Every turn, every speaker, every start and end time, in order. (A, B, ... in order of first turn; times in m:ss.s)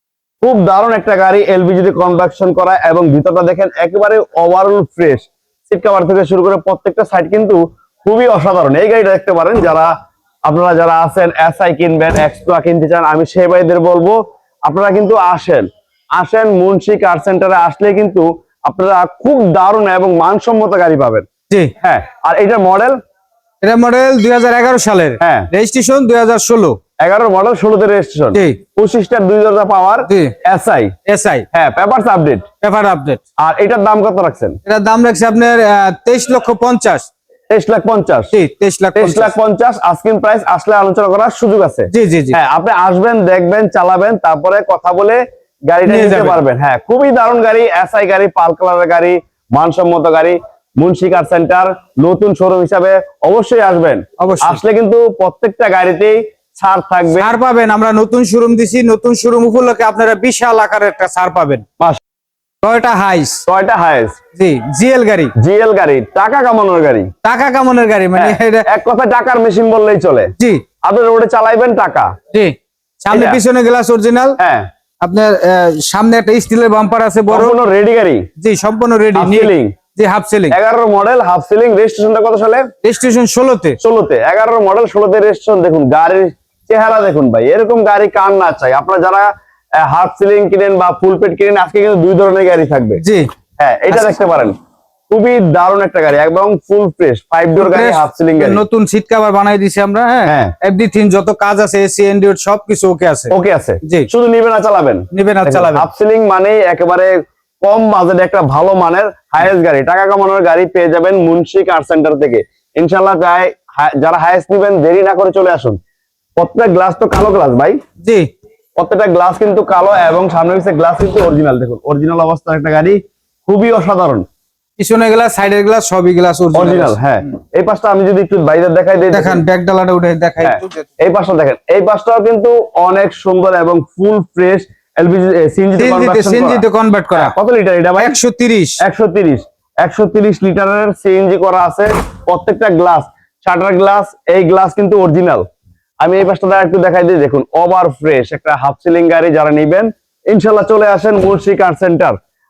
0:00.4-0:09.9 A
0:10.5-0:21.2 A
0:21.8-0:23.0 A
0:23.6-0:26.8 B
0:25.2-0:25.5 A
0:27.0-0:30.9 A
0:28.3-0:28.6 B
0:30.1-0:30.3 B
0:31.1-0:31.4 B
0:31.5-0:32.4 A
0:32.6-0:33.2 B
0:33.4-0:34.6 A
0:34.6-0:37.1 B
0:37.5-0:38.3 A
0:38.3-0:39.3 B
0:38.9-0:57.3 A
0:41.9-0:42.4 B
0:45.8-0:46.4 B
0:54.2-0:54.6 B
0:57.2-1:01.6 B
1:02.6-1:03.4 B
1:03.5-1:04.2 A
1:04.4-1:05.3 B
1:05.4-1:07.1 A
1:07.2-1:08.7 B
1:08.2-1:12.1 A
1:12.3-1:14.4 B
1:13.1-1:13.4 A
1:14.4-1:14.7 A
1:15.0-1:17.6 B
1:17.3-1:18.3 A
1:18.4-1:20.6 B
1:19.1-1:19.8 A
1:20.5-1:22.7 A
1:22.8-1:23.8 B
1:23.8-1:33.0 A
1:33.0-1:33.3 B
1:33.6-1:34.6 A
1:33.9-1:34.2 B
1:35.1-1:38.6 A
1:37.6-1:43.3 B
1:40.2-1:40.5 A
1:43.3-1:55.8 A
1:45.1-1:45.9 B
1:56.4-1:57.8 A
1:58.0-1:58.3 B
1:58.8-2:04.2 A
2:04.8-2:07.0 B
2:06.5-2:09.4 A
2:09.1-2:10.9 B
2:10.4-2:16.6 A
2:15.8-2:17.3 B
2:17.1-2:18.2 A
2:18.0-2:18.8 B
2:18.8-2:25.4 A
2:26.0-2:32.2 A